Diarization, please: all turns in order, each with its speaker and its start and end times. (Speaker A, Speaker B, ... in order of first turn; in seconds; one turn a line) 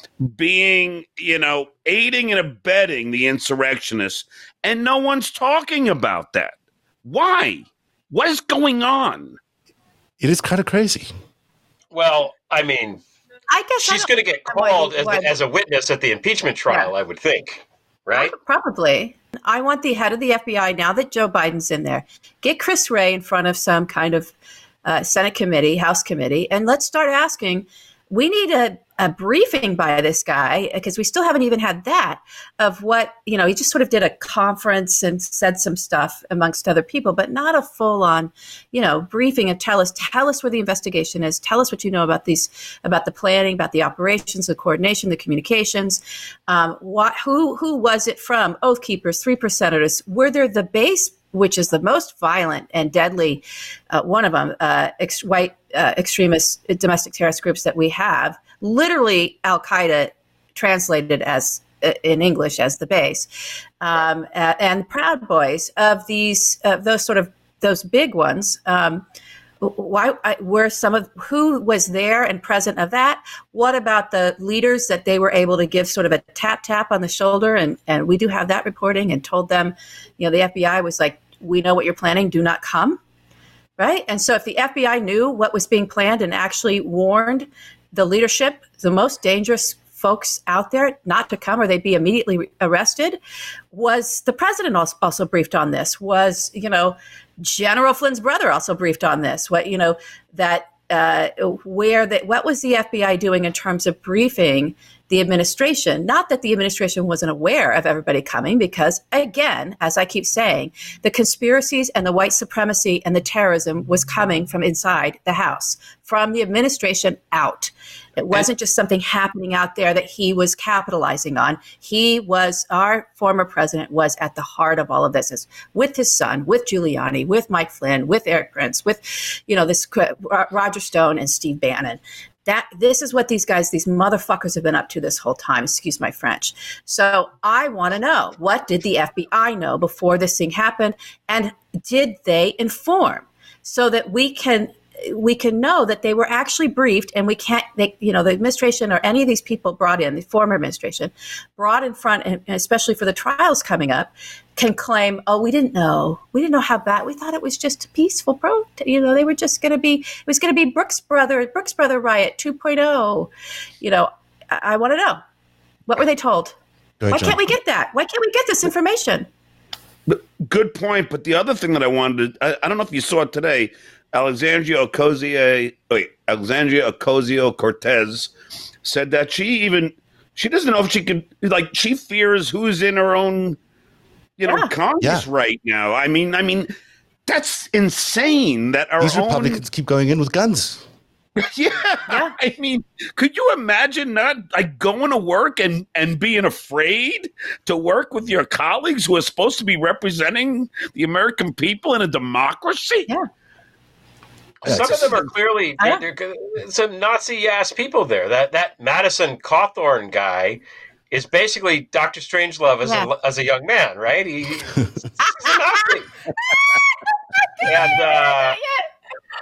Speaker A: 0.3-9.4
Speaker B: 10.2-11.1
Speaker C: 11.9-13.0
Speaker D: 13.5-15.3
Speaker C: 13.8-18.3
Speaker D: 18.1-24.3
Speaker D: 24.8-63.3
Speaker D: 63.8-69.0
Speaker D: 69.6-83.0
Speaker D: 83.8-93.2
Speaker D: 93.7-163.3
Speaker D: 163.8-165.2
Speaker D: 165.9-166.6
Speaker B: 167.0-167.4
Speaker D: 167.1-169.3
Speaker A: 170.1-178.3
Speaker A: 178.8-183.6
Speaker A: 184.4-186.7
Speaker B: 185.0-185.2
Speaker A: 187.3-189.6
Speaker B: 189.0-190.8
Speaker A: 191.4-203.1
Speaker D: 192.1-192.3
Speaker C: 204.6-216.1
Speaker B: 204.7-205.3
Speaker D: 212.8-213.1
Speaker D: 215.2-218.9
Speaker C: 217.6-218.6